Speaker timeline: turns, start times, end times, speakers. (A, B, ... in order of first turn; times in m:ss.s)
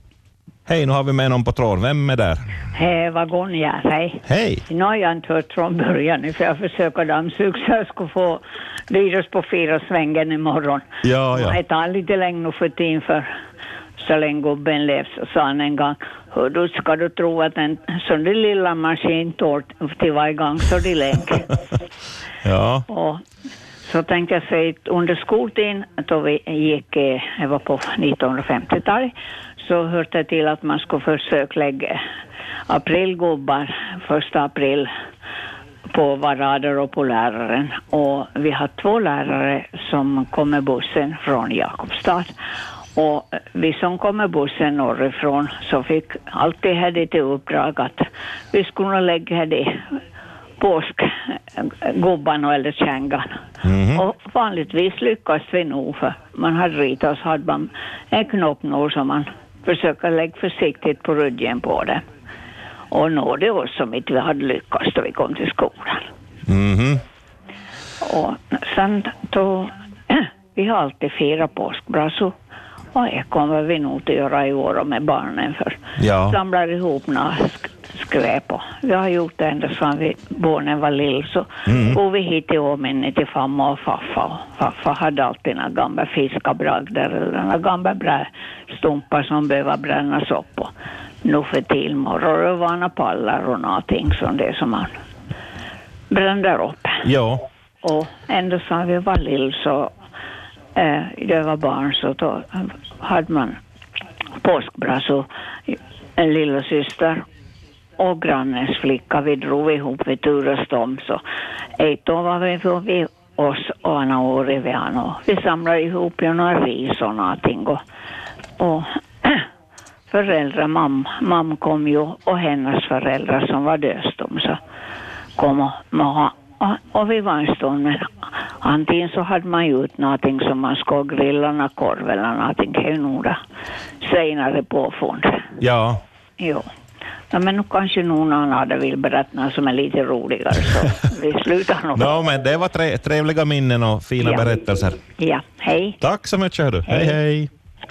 0:00.7-0:02.4 A
0:02.7-0:13.3 B
0:04.2-0:04.6 A
0:11.0-0:11.6 A
0:14.0-0:21.6 B
0:22.4-0:22.9 A
0:22.9-0:23.2 B
0:23.8-0:32.0 B
0:32.7-0:34.9 B
0:35.9-0:42.3 B
0:43.0-0:49.9 B
0:50.6-0:53.4 B
0:53.6-0:54.0 A
0:53.9-1:02.0 B
1:02.9-1:06.1 B
1:06.5-1:07.0 A
1:08.0-1:12.3 B
1:12.9-1:30.7 B
1:16.0-1:16.4 A
1:21.7-1:22.0 A
1:31.2-1:35.0 B
1:36.1-1:37.1 B
1:37.0-1:37.4 A
1:37.8-1:39.9 B
1:40.8-1:43.6 B
1:44.4-1:47.2 B
1:48.0-1:51.2 B
1:51.8-1:57.8 B
1:58.6-1:59.5 B
2:00.1-2:04.6 B
2:05.4-2:13.4 B
2:14.0-2:15.5 B
2:15.6-2:16.0 A
2:16.4-2:16.7 B
2:17.3-2:22.1 B
2:22.0-2:25.0 A
2:24.2-2:24.6 B
2:25.2-2:26.0 B
2:26.0-2:27.5 A
2:26.9-2:27.2 B